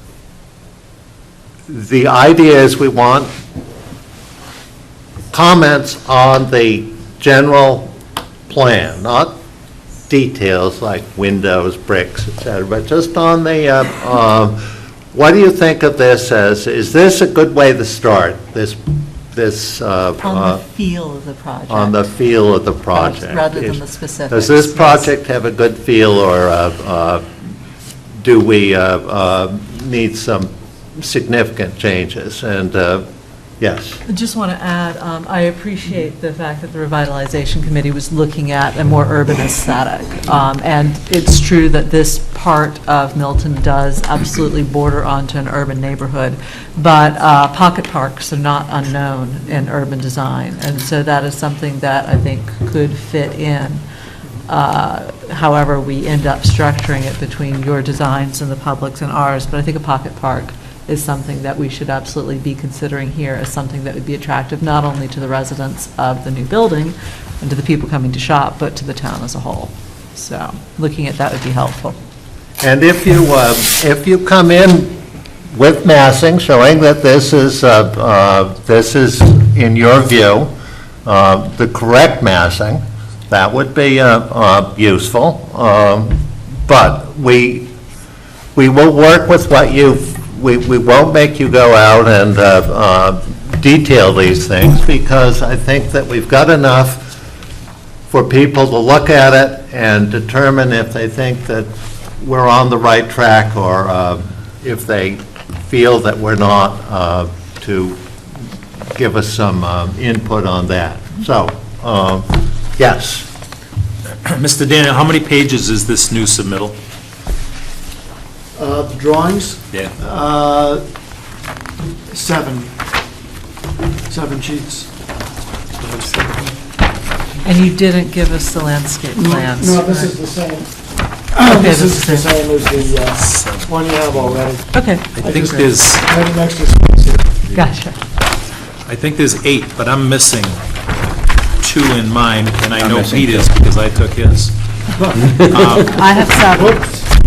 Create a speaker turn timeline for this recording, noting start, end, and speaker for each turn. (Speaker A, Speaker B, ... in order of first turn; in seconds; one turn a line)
Speaker A: 1.7-3.3
Speaker A: 5.3-7.9
Speaker A: 8.5-9.3
Speaker A: 10.1-14.6
Speaker A: 15.1-18.8
Speaker A: 19.3-20.6
Speaker B: 20.2-22.1
Speaker A: 21.7-27.2
Speaker B: 22.9-25.1
Speaker A: 28.2-33.0
Speaker A: 33.6-34.0
Speaker B: 34.0-53.8
Speaker B: 54.5-72.0
Speaker A: 72.6-75.0
Speaker A: 75.5-80.5
Speaker A: 81.0-87.7
Speaker A: 88.5-97.1
Speaker A: 98.1-108.0
Speaker A: 108.9-113.3
Speaker C: 114.2-116.8
Speaker D: 118.5-120.8
Speaker D: 122.1-122.7
Speaker D: 124.1-124.9
Speaker C: 125.8-126.5
Speaker B: 127.4-130.1
Speaker D: 129.1-130.7
Speaker D: 131.3-137.4
Speaker B: 131.4-132.4
Speaker C: 133.1-134.3
Speaker B: 134.7-135.2
Speaker C: 135.1-136.1
Speaker B: 137.5-138.0
Speaker C: 138.8-140.6
Speaker C: 141.6-144.5
Speaker C: 145.4-146.0
Speaker B: 145.9-146.9
Speaker D: 146.5-147.0